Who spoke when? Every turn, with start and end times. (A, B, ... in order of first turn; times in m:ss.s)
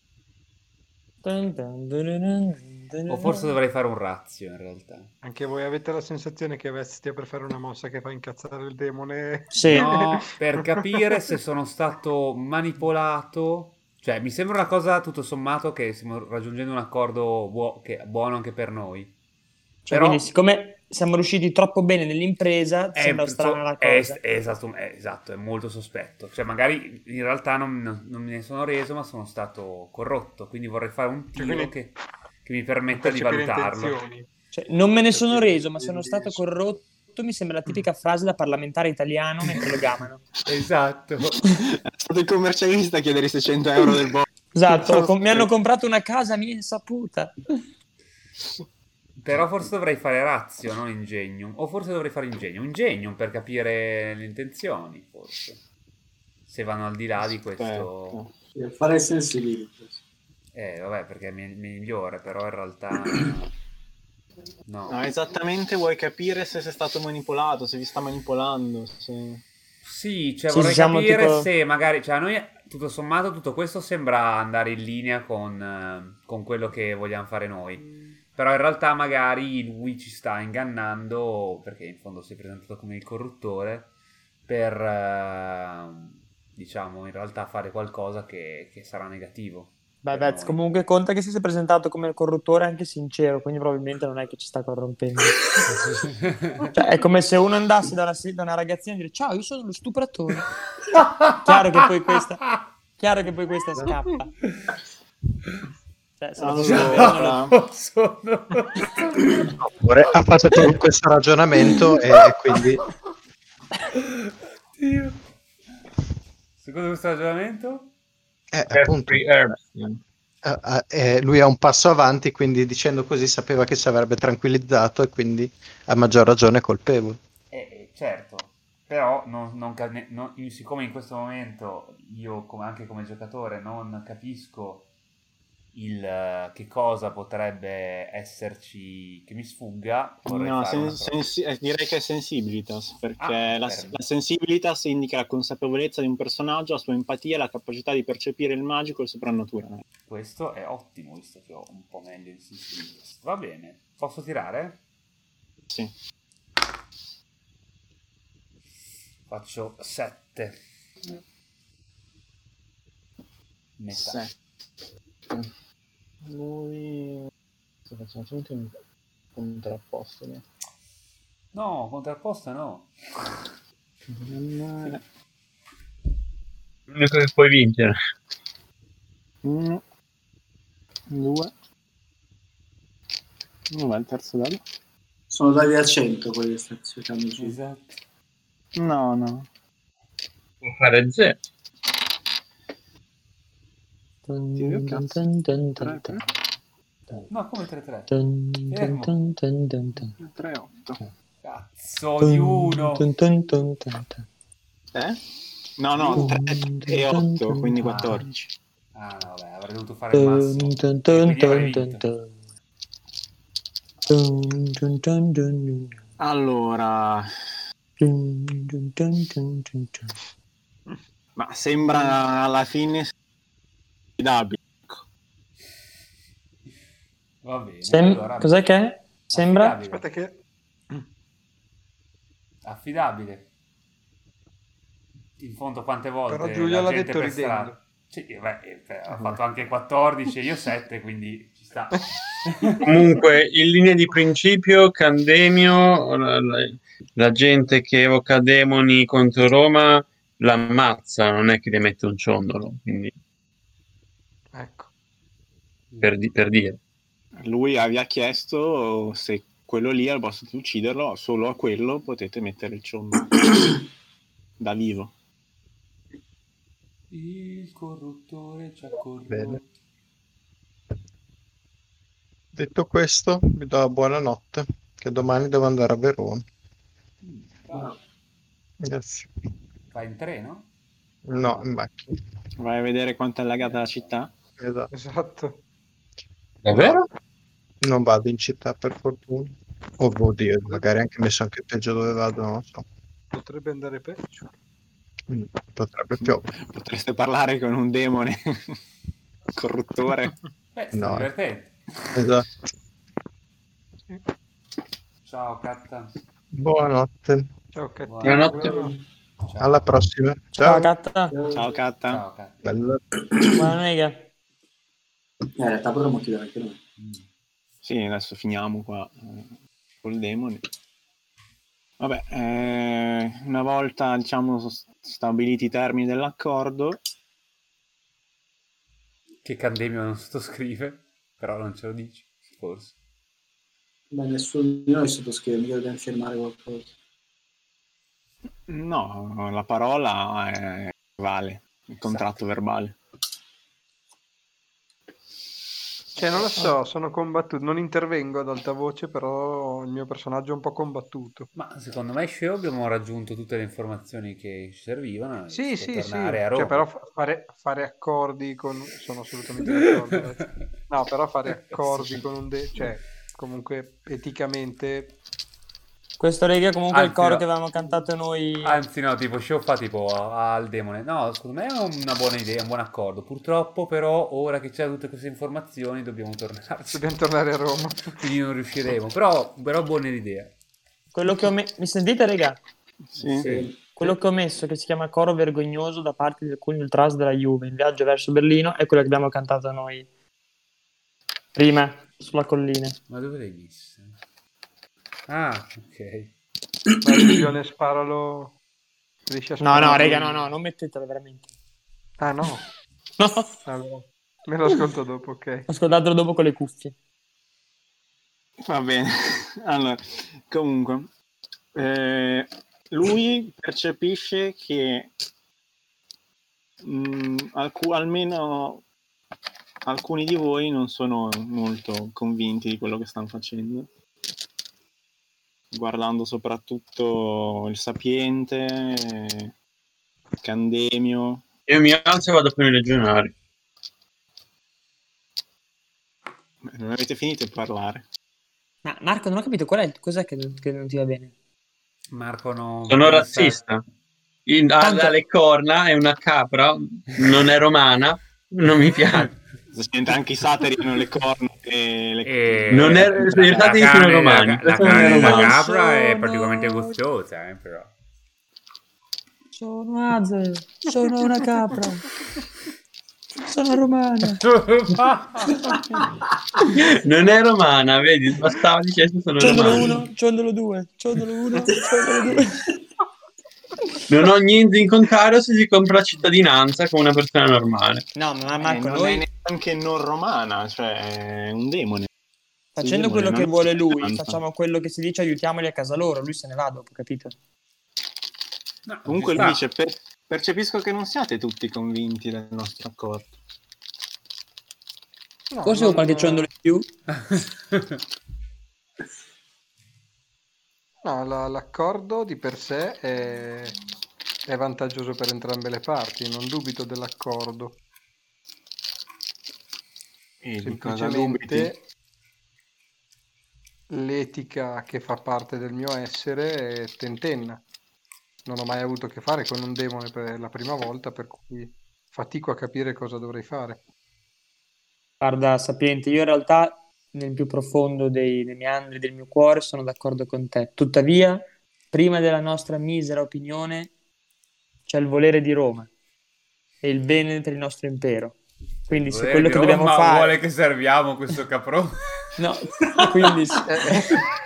0:01.2-0:03.6 A
0:03.1-0:05.1 B
0:05.2-0:10.8 C
0:09.5-0:10.0 A
0:09.7-0:19.1 B
0:19.8-0:24.2 A
0:19.9-0:20.2 B
0:22.9-0:34.0 B
0:31.4-0:31.7 C
0:33.0-0:34.3 C
0:34.5-0:40.2 A
0:35.1-0:36.4 C
0:40.4-0:41.4 B
0:41.5-0:45.5 D
0:44.5-0:47.4 A
0:49.2-0:55.6 B
0:56.4-0:58.2 B
0:57.2-0:58.3 D
0:58.5-1:00.0 E
1:00.5-1:03.5 B
1:04.6-1:05.0 B
1:04.9-1:09.4 D
1:09.8-1:23.9 B
1:10.5-1:11.5 A
1:24.5-1:30.6 B
1:30.0-1:35.9 A
1:35.7-1:36.7 B
1:36.7-1:40.5 A
1:40.8-1:41.9 B
1:41.4-1:44.3 A
1:44.5-1:44.7 B
1:46.2-1:47.4 A
1:46.4-1:47.5 D
1:46.6-1:49.3 B
1:49.6-1:52.8 F
1:54.8-1:55.2 B
1:56.6-1:57.9 B
1:58.5-1:59.2 F
1:58.7-1:59.9 G
2:00.4-2:07.2 F
2:07.5-2:14.9 B
2:15.7-2:21.2 B
2:20.2-2:29.8 D
2:23.2-2:24.0 B
2:30.1-2:34.8 B
2:39.3-2:40.6 B
2:43.8-2:44.2 B
2:43.9-2:44.4 D
2:46.2-2:47.3 D
2:47.8-2:48.7 D
2:49.3-2:50.4 D
2:51.5-2:53.3 B
2:54.1-2:55.0 D
2:56.9-2:58.0 G
2:59.4-2:59.8 D
3:01.1-3:01.5 D
3:03.7-3:04.6 D
3:05.3-3:07.6 E
3:07.4-3:08.0 B
3:08.7-3:09.5 D
3:10.6-3:11.4 G
3:14.3-3:16.2 A
3:14.6-3:15.2 D
3:15.8-3:16.2 D
3:17.3-3:18.1 B
3:18.1-3:20.1 A
3:18.7-3:19.1 B
3:20.2-3:21.0 D
3:21.4-3:23.1 B
3:22.2-3:24.2 A
3:24.9-3:25.2 D
3:25.8-3:28.5 D
3:26.0-3:26.3 B
3:26.1-3:28.2 A
3:27.8-3:28.2 B
3:28.9-3:32.0 B
3:30.1-3:32.3 A
3:34.1-3:35.9 A
3:36.2-3:37.3 D
3:38.0-3:40.1 A
3:41.4-3:43.1 D
3:44.2-3:45.0 D
3:47.4-3:48.5 B
3:47.8-3:49.8 A
3:49.3-3:50.0 B
3:49.9-3:50.4 C
3:52.6-3:53.5 B
3:55.4-4:03.2 B
3:56.3-3:57.8 C
4:02.8-4:13.1 G
4:14.5-4:14.9 C
4:16.0-4:16.8 G
4:17.4-4:23.4 D
4:24.6-4:25.1 D
4:27.1-4:29.6 B
4:29.2-4:29.6 F
4:32.5-4:36.4 F
4:37.2-4:37.9 B
4:38.8-4:39.3 F
4:39.9-4:40.7 B
4:41.3-4:42.2 F
4:42.6-4:44.3 D
4:43.6-4:44.1 B
4:44.6-4:44.9 F
4:44.9-4:45.6 C
4:46.6-4:47.0 B
4:47.8-4:52.8 F
4:53.3-4:54.5 C
4:55.3-4:56.5 F
4:56.2-4:58.8 D
4:59.5-5:00.3 D
5:00.7-5:01.7 B
5:00.9-5:01.3 F
5:02.1-5:02.5 F
5:05.2-5:06.1 B
5:06.5-5:07.5 F
5:07.7-5:09.0 C
5:08.0-5:08.7 B
5:08.2-5:08.8 G
5:09.5-5:09.7 B
5:09.6-5:10.9 F
5:10.6-5:11.4 A
5:11.3-5:11.6 E
5:11.5-5:12.2 D
5:12.1-5:12.6 B
5:12.6-5:13.0 F
5:13.5-5:14.3 A
5:15.6-5:16.8 E
5:17.0-5:17.3 B
5:17.8-5:20.6 D
5:22.0-5:27.0 D
5:29.4-5:33.0 B
5:34.1-5:36.9 E
5:38.7-5:43.0 D
5:42.0-5:42.3 B
5:46.2-5:51.5 C
5:51.6-5:56.8 B
5:55.5-6:05.2 C
6:01.7-6:02.2 B
6:06.2-6:08.8 A
6:06.9-6:07.4 B
6:08.6-6:17.0 B
6:16.9-6:18.2 C
6:18.2-6:20.5 B
6:21.1-6:22.6 A
6:23.1-6:23.5 D
6:23.2-6:23.7 B
6:23.4-6:23.7 E
6:23.8-6:30.1 A
6:31.5-6:33.0 A
6:33.1-6:34.2 B
6:35.3-6:36.3 B
6:37.0-6:38.6 C
6:39.3-6:40.4 C
6:39.6-6:41.5 A
6:42.2-6:42.6 C
6:43.2-6:43.5 A
6:43.6-6:45.7 C
6:45.7-6:46.9 A
6:48.6-6:51.1 D
6:51.7-6:55.1 D
6:56.8-6:58.8 D
6:59.8-7:03.9 D
7:05.7-7:09.5 D
7:10.4-7:11.4 D
7:11.7-7:13.3 G
7:16.6-7:18.0 D
7:18.8-7:21.3 A
7:22.1-7:23.6 B
7:22.9-7:23.8 G
7:24.4-7:29.3 G
7:24.8-7:25.2 A
7:29.7-7:33.9 D
7:32.2-7:37.9 B
7:32.7-7:35.6 G
7:34.8-7:37.0 A
7:39.6-7:42.1 A
7:43.4-7:44.4 A
7:44.4-7:45.8 B
7:46.8-7:50.0 G
7:49.4-7:52.6 A
7:54.1-7:58.0 G
7:58.1-7:59.2 A
7:58.6-8:02.1 D
8:02.7-8:07.3 A
8:02.8-8:04.4 D
8:08.9-8:09.6 B
8:09.0-8:13.3 D
8:15.5-8:16.5 C
8:15.6-8:16.9 A
8:17.1-8:18.0 B
8:21.0-8:23.8 C
8:24.4-8:27.8 C
8:30.4-8:31.7 D
8:30.6-8:31.8 C
8:33.9-8:37.6 C
8:38.4-8:43.8 C
8:45.2-8:53.9 A
8:54.8-8:55.9 A
8:56.8-8:58.4 A
8:58.9-9:00.4 A
8:58.9-9:02.0 B
9:02.4-9:03.7 A
9:03.6-9:04.2 C